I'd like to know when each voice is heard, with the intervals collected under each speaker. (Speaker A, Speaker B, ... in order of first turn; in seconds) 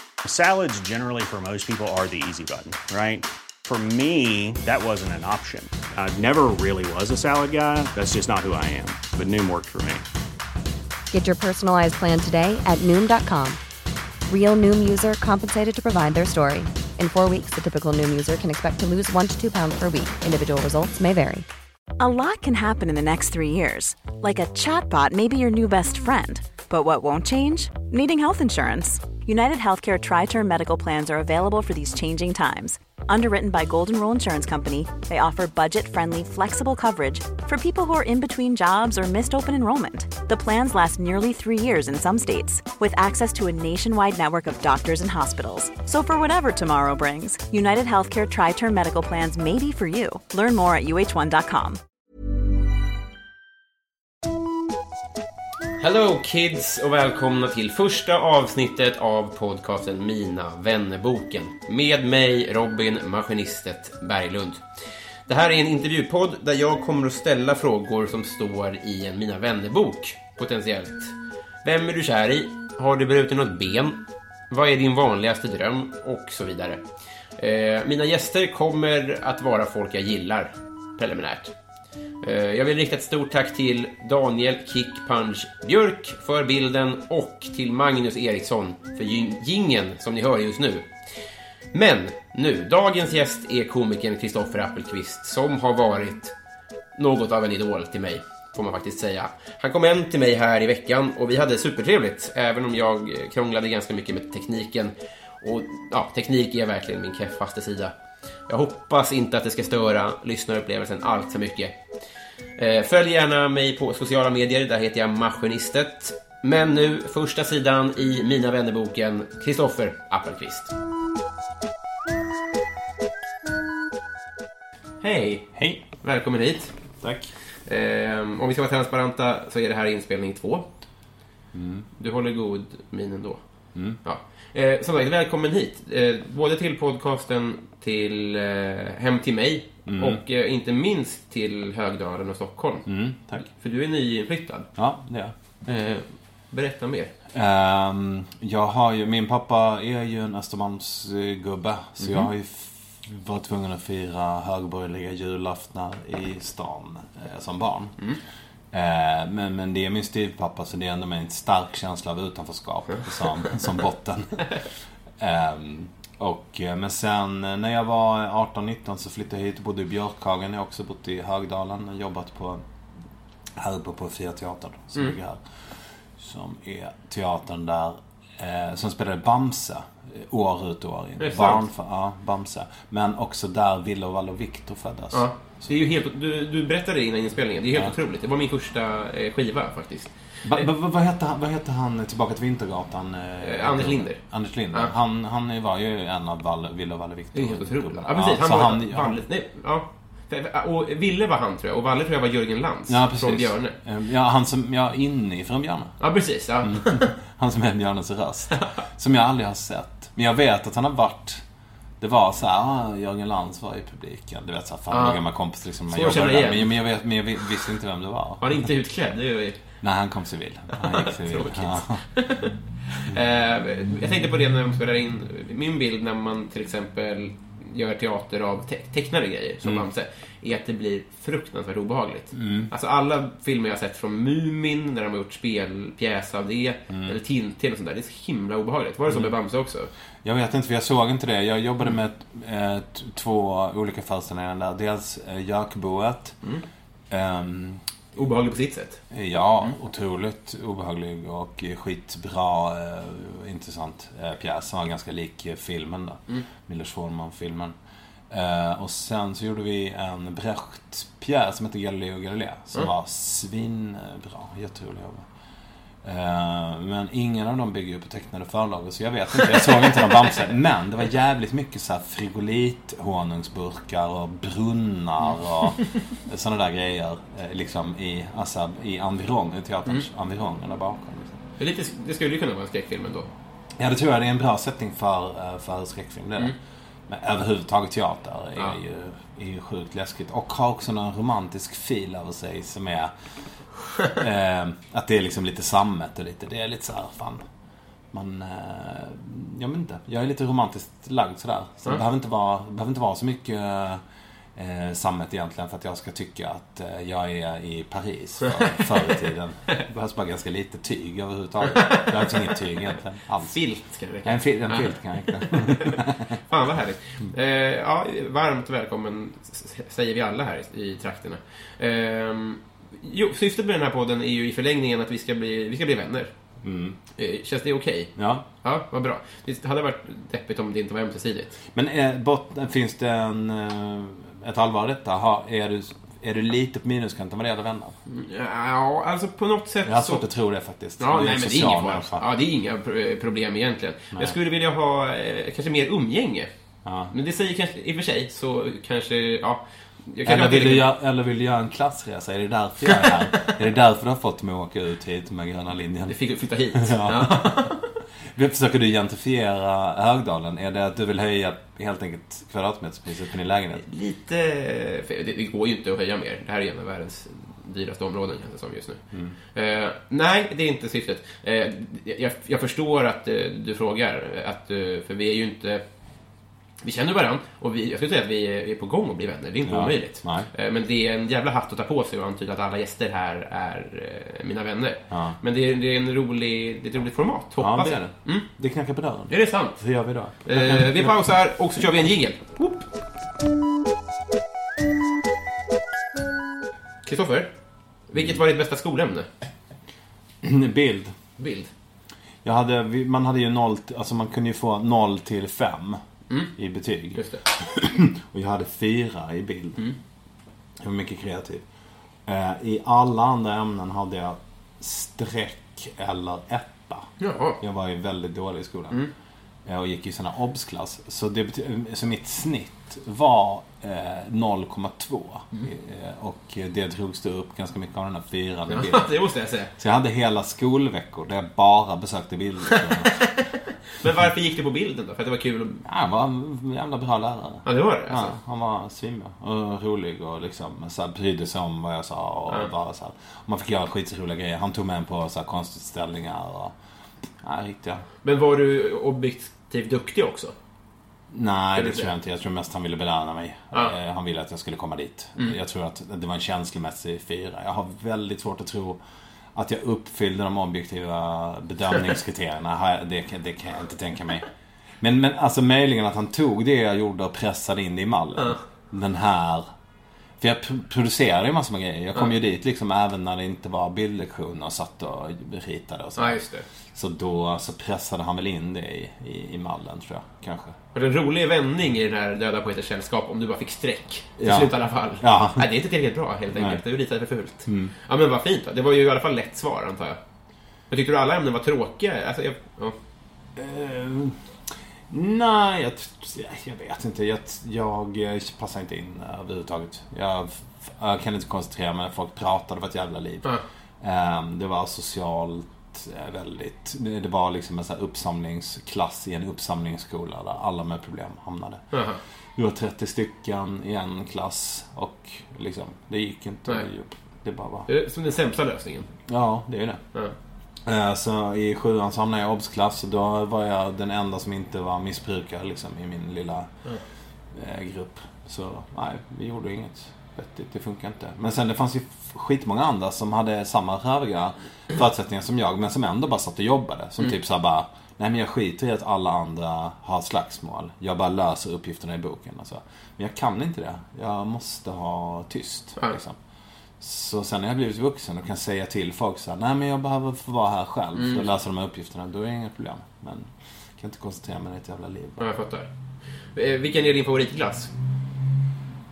Speaker A: 0.2-10.0
Speaker B: 11.1-13.6, 14.3-21.4
Speaker C: 22.0-51.8
Speaker D: 55.8-76.8, 77.4-81.5, 82.2-90.9, 91.7-96.3, 96.9-107.9, 108.5-111.8, 112.5-120.7, 125.0-126.7, 127.6-130.7, 132.0-144.7, 145.6-147.1, 152.0-152.3, 181.2-181.6, 185.1-190.6, 193.4-194.9, 197.3-203.8, 206.0-207.1, 208.5-208.8, 214.9-215.2, 215.9-216.7, 218.4-219.6, 220.7-239.9, 248.2-249.0, 281.6-283.3, 308.6-309.3, 311.6-312.3, 313.4-326.3, 327.2-331.6, 338.1-340.2, 341.0-346.5, 347.1-350.9, 352.9-353.5, 356.1-357.9, 363.8-375.8, 376.8-388.5, 389.3-389.8, 390.4-392.9, 397.0-399.3, 401.4-401.7, 406.3-406.5, 407.1-407.4, 417.2-417.6, 428.7-429.7, 432.7-435.8, 437.6-438.4, 448.2-450.5, 451.7-452.1, 468.4-468.6, 476.2-476.7, 480.9-490.2, 490.9-493.0, 511.9-512.2, 517.9-519.1, 551.1-551.4, 555.4-557.9
Speaker E: 125.5-125.8, 127.0-127.3, 131.5-131.9, 139.8-140.2, 142.8-143.5, 144.8-145.3, 147.3-158.0, 158.7-172.7, 173.5-185.6, 190.4-199.2, 202.9-206.0, 206.6-211.4, 212.0-218.7, 219.8-222.0, 232.3-232.7, 236.9-237.2, 239.1-239.3, 240.2-246.4, 247.1-247.8, 249.1-257.8, 258.3-265.3, 266.0-281.4, 283.8-286.6, 287.1-293.1, 294.1-297.4, 298.1-304.0, 304.5-313.6, 314.2-316.4, 326.6-327.0, 328.1-328.4, 331.7-338.0, 339.8-342.2, 346.8-347.1, 350.2-356.2, 356.7-363.9, 379.6-380.5, 385.1-385.4, 387.6-391.2, 400.4-401.1, 402.4-406.0, 406.5-409.8, 410.8-411.6, 412.2-419.0, 419.6-429.1, 429.8-433.2, 435.8-446.8, 447.4-448.1, 451.3-459.0, 459.5-464.5, 465.0-469.7, 470.4-480.8, 484.4-485.8, 486.5-486.8, 487.6-487.9, 493.6-512.0, 512.5-517.9, 519.3-520.0, 520.8-526.9, 527.5-546.4, 547.0-555.5